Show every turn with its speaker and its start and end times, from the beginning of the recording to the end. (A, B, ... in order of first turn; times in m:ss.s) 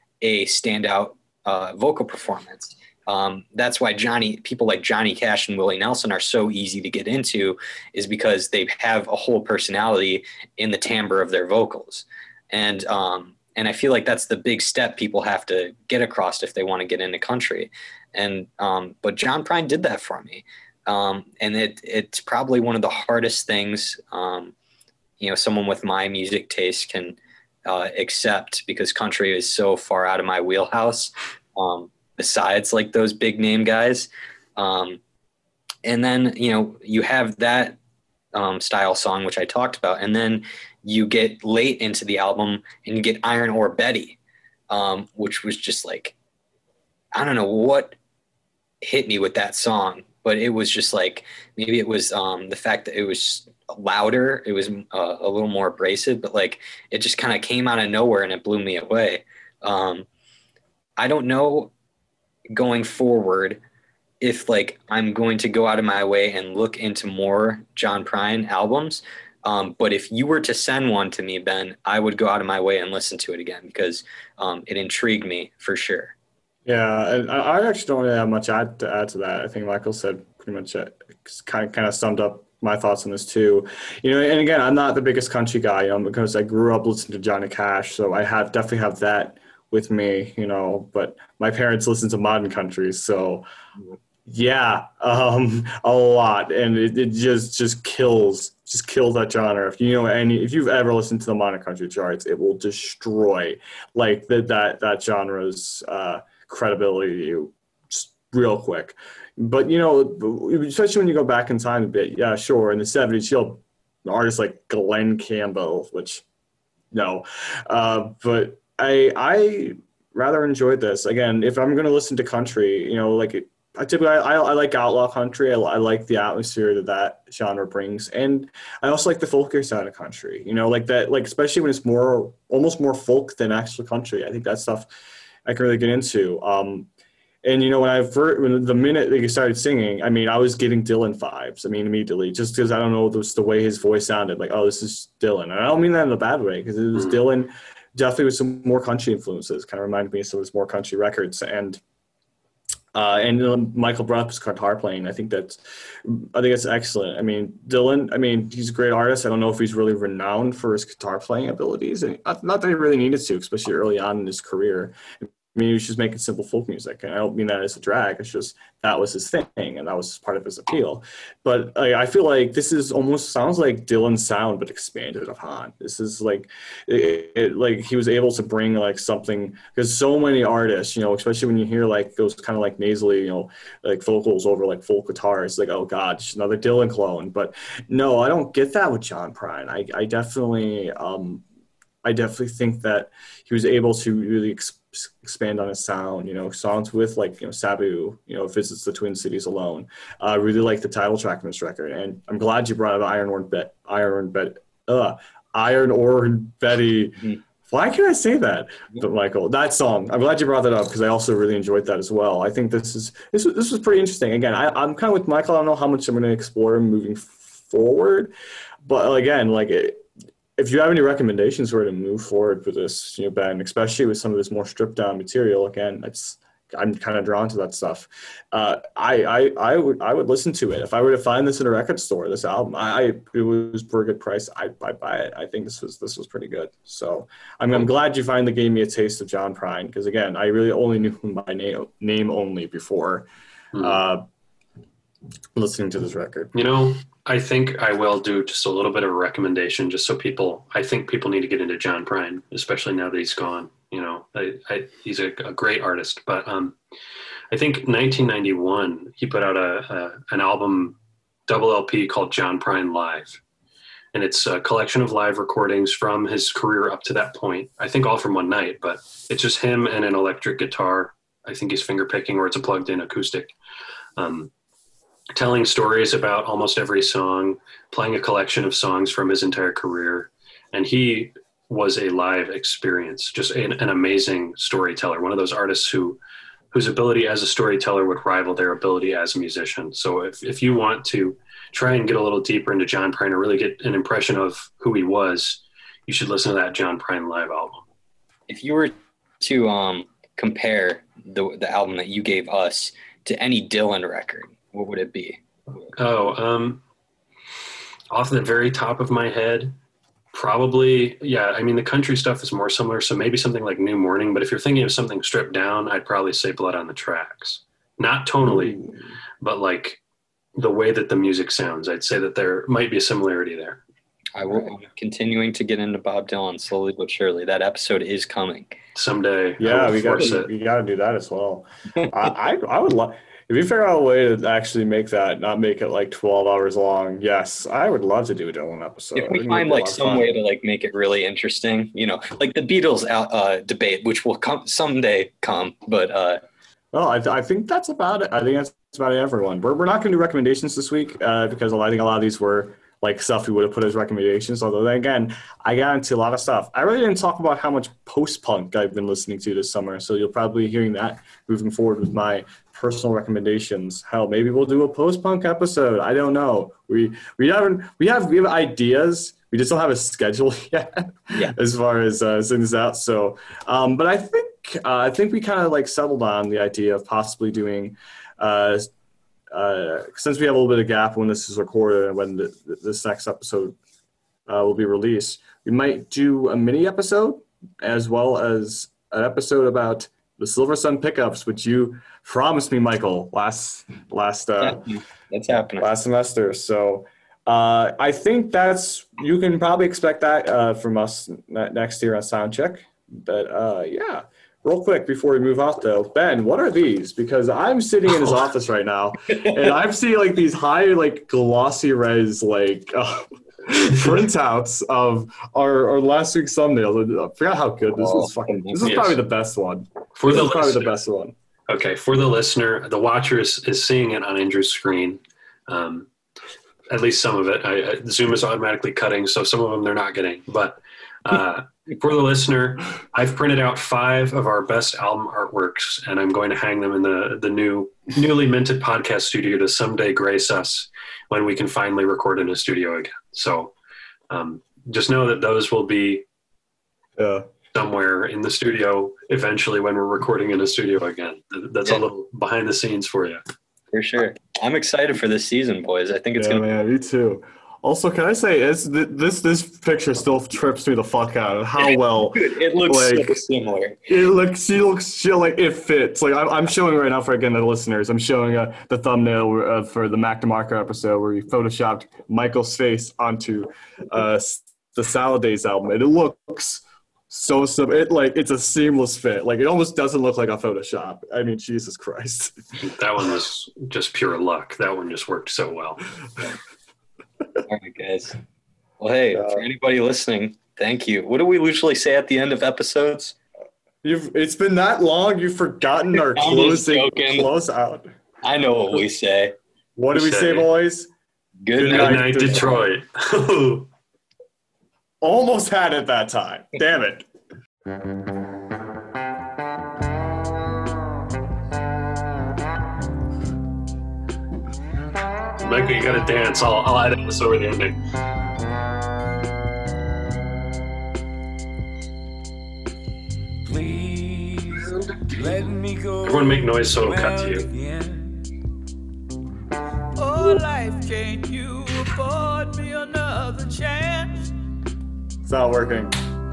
0:00.2-0:24.5 A
0:25.2-0:35.0 A
0:35.8-0:37.8 A
0:38.3-0:44.2 A
0:44.7-0:46.2 A
0:47.2-0:48.0 A
0:48.8-1:00.1 A
1:01.0-1:01.7 A
1:02.5-1:03.6 A
1:04.2-1:16.2 A
1:16.7-1:33.5 B
1:34.2-1:56.2 B
1:56.9-2:14.9 B
2:15.5-2:16.9 B
2:17.4-2:31.8 B
2:26.9-2:27.2 C
2:32.9-3:11.4 B
3:12.0-3:40.1 B
3:40.6-4:04.3 B
4:03.7-4:04.0 C
4:05.6-4:06.6 B
4:06.5-4:16.8 C
4:17.5-4:23.4 C
4:24.1-4:33.6 C
4:34.2-4:34.5 C
4:35.4-4:46.2 C
4:46.7-4:57.8 C
4:58.5-5:05.9 A
5:06.0-5:06.8 C
5:08.1-5:09.8 C
5:10.3-5:18.8 C
5:18.4-5:19.1 B
5:19.4-5:20.0 C
5:20.6-5:23.8 C
5:24.4-5:28.8 A
5:24.5-5:24.8 B
5:29.0-5:30.5 C
5:29.6-5:40.3 B
5:39.2-5:46.4 A
5:46.9-6:18.9 B
6:19.5-6:23.8 B
6:24.5-6:34.9 B
6:34.6-6:35.9 A
6:35.8-7:01.4 B
6:58.0-6:59.0 A
6:58.8-6:59.2 C
7:00.2-7:01.0 C
7:01.7-7:06.1 C
7:06.9-7:23.7 C
7:24.3-7:26.3 C
7:27.2-7:27.5 B
7:27.7-7:33.4 C
7:33.9-7:36.6 A
7:36.4-7:43.4 B
7:41.8-7:44.0 A
7:44.1-8:02.5 B
8:02.8-8:06.1 C
8:07.7-8:08.4 A
8:09.0-8:13.4 A
8:09.3-8:09.6 B
8:14.0-8:18.1 B
8:16.3-8:17.5 A
8:18.4-8:19.6 A
8:20.0-8:21.1 B
8:20.1-8:20.7 C
8:21.6-8:22.6 A
8:21.8-8:23.9 C
8:21.8-8:22.8 B
8:25.2-8:27.2 B
8:35.6-8:38.0 C
8:43.6-8:48.4 D
8:46.2-8:47.7 C
8:50.2-8:54.5 E
8:55.4-8:56.2 B